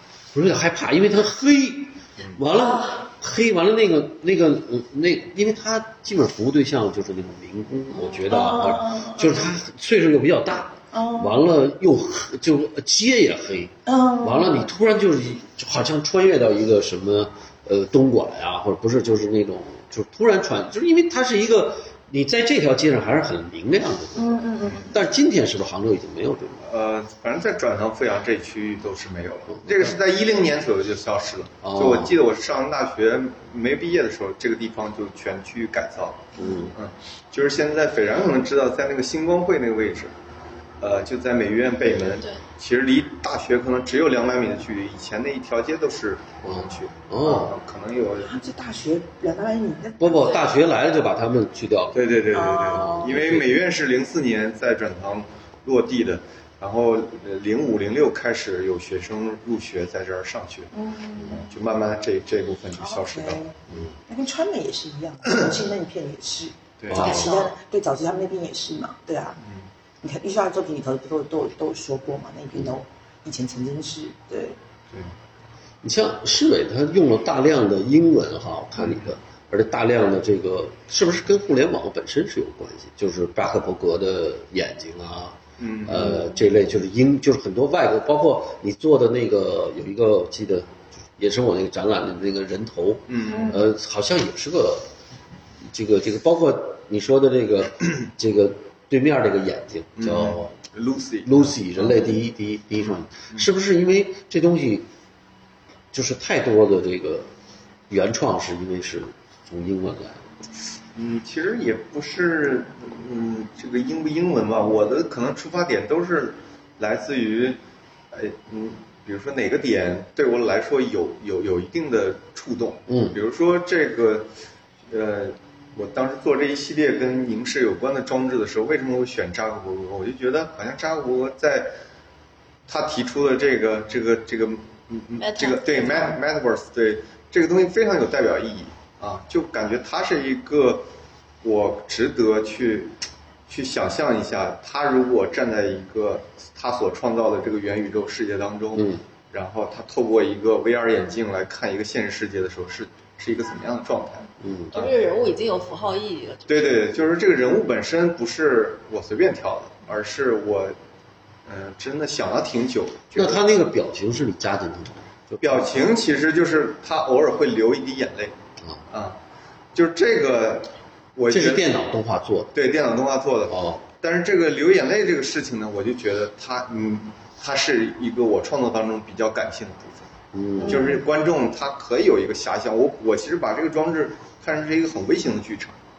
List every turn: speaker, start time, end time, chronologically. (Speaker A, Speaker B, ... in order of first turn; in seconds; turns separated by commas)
Speaker A: 0.3-26.6, Speaker B: 2.5-3.0, Speaker B: 7.9-8.4, Speaker C: 8.3-9.5, Speaker C: 10.9-11.4, Speaker C: 13.8-14.7, Speaker C: 24.1-24.9, Speaker D: 26.6-40.1, Speaker A: 29.5-29.9, Speaker A: 31.6-32.1, Speaker A: 36.4-36.7, Speaker D: 40.8-48.3, Speaker A: 46.4-47.5, Speaker C: 48.2-50.5, Speaker A: 50.0-53.5, Speaker B: 50.2-50.5, Speaker D: 51.9-60.7, Speaker C: 52.3-53.1, Speaker C: 60.7-61.5, Speaker D: 61.2-63.8, Speaker C: 62.8-63.5, Speaker C: 64.1-69.4, Speaker D: 66.8-67.2, Speaker A: 66.9-67.3, Speaker B: 66.9-67.5, Speaker C: 70.0-74.6, Speaker A: 75.8-94.9, Speaker D: 78.8-79.1, Speaker D: 85.6-86.2, Speaker D: 93.1-93.6, Speaker C: 93.2-93.6, Speaker A: 95.7-100.5, Speaker D: 100.0-102.0, Speaker A: 101.2-104.9, Speaker D: 102.8-103.5, Speaker A: 105.9-107.3, Speaker A: 107.9-110.2, Speaker D: 110.9-117.6, Speaker D: 118.1-124.3, Speaker A: 122.9-123.2, Speaker D: 124.9-131.7, Speaker D: 132.7-140.9, Speaker B: 135.2-136.2, Speaker D: 141.4-142.9, Speaker D: 143.5-155.0, Speaker A: 148.8-149.0, Speaker A: 154.4-154.7, Speaker B: 154.7-156.8, Speaker D: 156.5-160.8, Speaker D: 161.4-163.4, Speaker A: 163.1-165.8, Speaker D: 165.4-168.3, Speaker D: 168.9-169.2, Speaker D: 169.7-171.8, Speaker A: 171.3-172.5, Speaker D: 172.5-180.1, Speaker A: 173.5-173.8, Speaker A: 180.3-180.9, Speaker C: 180.6-181.0, Speaker D: 180.6-185.8